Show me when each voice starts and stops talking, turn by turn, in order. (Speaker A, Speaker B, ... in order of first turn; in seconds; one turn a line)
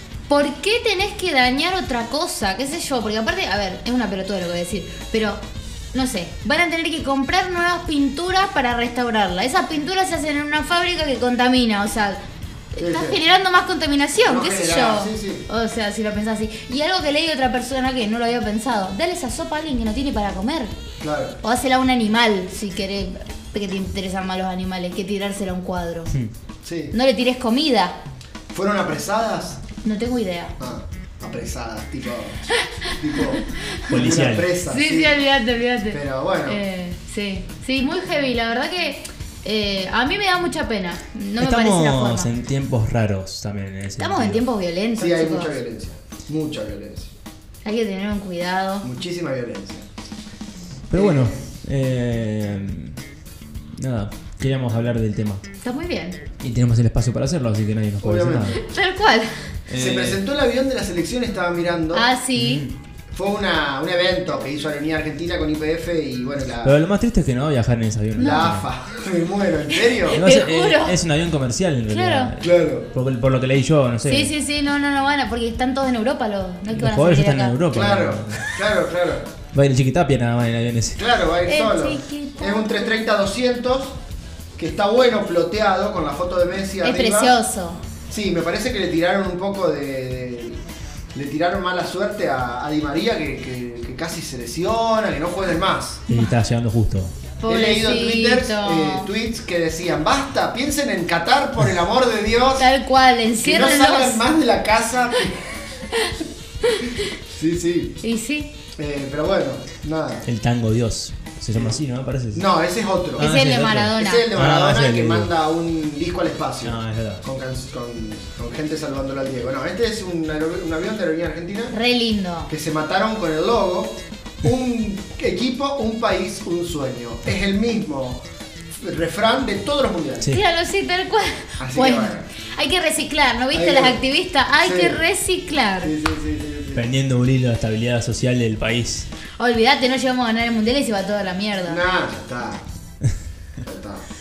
Speaker A: 0.3-5.4
Speaker A: 5.9-12.2
Speaker A: 12.7-20.7
Speaker B: 12.8-13.2
Speaker B: 14.2-15.5
Speaker B: 21.0-21.4
Speaker A: 21.4-26.1
Speaker B: 26.6-26.9
Speaker A: 26.9-28.0
Speaker B: 28.5-29.6
Speaker A: 29.8-30.6
Speaker B: 30.6-35.2
Speaker A: 32.5-34.0
Speaker C: 33.9-34.5
Speaker A: 34.6-42.3
Speaker B: 35.9-36.6
Speaker C: 41.4-44.5
Speaker A: 44.0-45.5
Speaker B: 45.0-47.1
Speaker A: 47.6-48.9
Speaker B: 48.8-49.8
Speaker C: 50.9-53.0
Speaker B: 50.9-51.4
Speaker C: 53.8-55.4
Speaker A: 55.6-56.2
Speaker C: 56.4-58.6
Speaker B: 58.0-58.6
Speaker A: 58.5-59.5
Speaker C: 59.7-60.2
Speaker B: 59.7-62.1
Speaker A: 61.9-62.6
Speaker C: 62.3-62.8
Speaker B: 63.1-66.8
Speaker C: 66.6-68.7
Speaker B: 68.2-70.2
Speaker A: 68.2-68.6
Speaker A: 69.7-71.0
Speaker C: 70.1-74.3
Speaker A: 71.9-72.3
Speaker B: 72.4-72.9
Speaker A: 74.0-77.6
Speaker C: 76.7-78.7
Speaker B: 77.7-79.3
Speaker C: 79.5-81.0
Speaker B: 81.0-84.0
Speaker A: 81.5-83.0
Speaker B: 84.6-87.4
Speaker A: 86.8-87.8
Speaker B: 88.1-90.6
Speaker B: 91.1-96.0
Speaker C: 96.1-97.1
Speaker A: 97.4-99.1
Speaker B: 97.5-102.7
Speaker A: 102.6-104.3
Speaker B: 103.4-105.4
Speaker A: 105.9-107.0
Speaker B: 107.3-108.0
Speaker A: 108.0-108.5
Speaker B: 108.8-110.3
Speaker C: 110.3-112.5
Speaker B: 112.3-113.3
Speaker C: 113.2-115.3
Speaker A: 113.2-114.3
Speaker B: 114.0-121.8
Speaker C: 116.6-117.2
Speaker A: 121.7-122.5
Speaker B: 122.5-128.2
Speaker B: 128.8-130.3
Speaker A: 130.3-135.9
Speaker B: 131.6-132.3
Speaker B: 133.5-134.0
Speaker B: 134.6-135.0
Speaker B: 135.8-136.9
Speaker C: 136.8-139.1
Speaker A: 139.4-141.8
Speaker B: 141.7-142.6
Speaker B: 143.6-144.1